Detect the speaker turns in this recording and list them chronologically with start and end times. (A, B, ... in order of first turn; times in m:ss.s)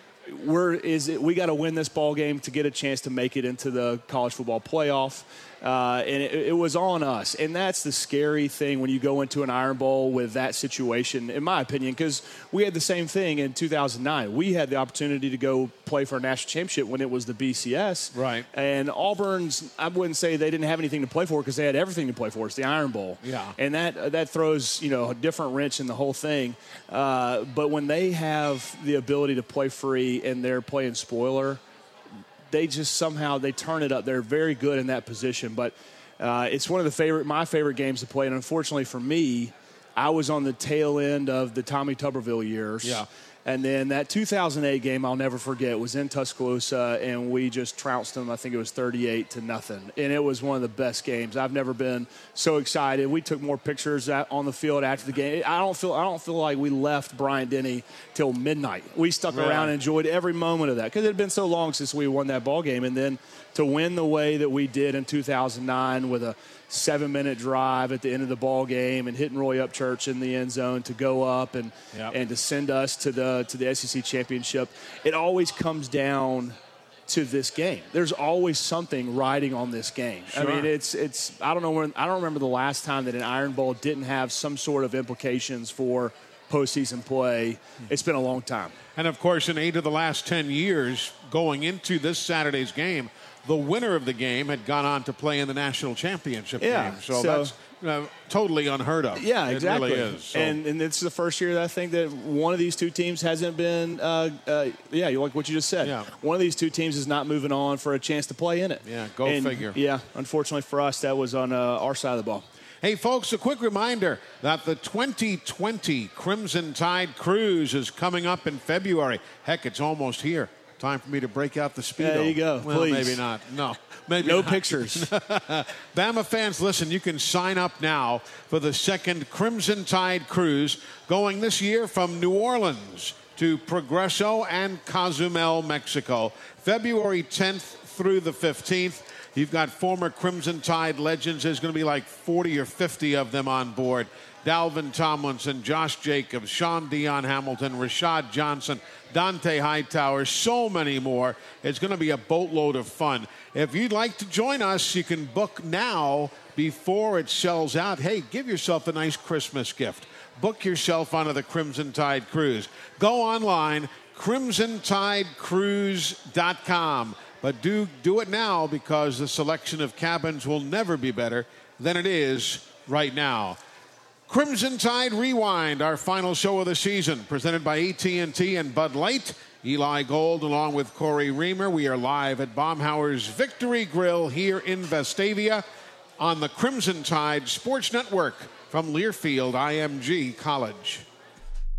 0:00.3-0:31.6 A
0:18.1-0:18.4 B
0:23.2-0:23.6 B
0:32.5-1:16.6 A
0:59.3-0:59.7 B
1:17.1-1:28.8 A
1:20.3-1:20.7 B
1:28.9-1:40.6 B
1:36.6-1:37.5 A
1:39.2-1:52.4 A
1:45.8-1:46.1 B
1:48.8-1:49.8 B
1:52.8-2:53.6 B
2:02.0-2:03.2 A
2:04.2-2:05.1 A
2:54.3-3:05.6 B
3:06.2-3:11.0 B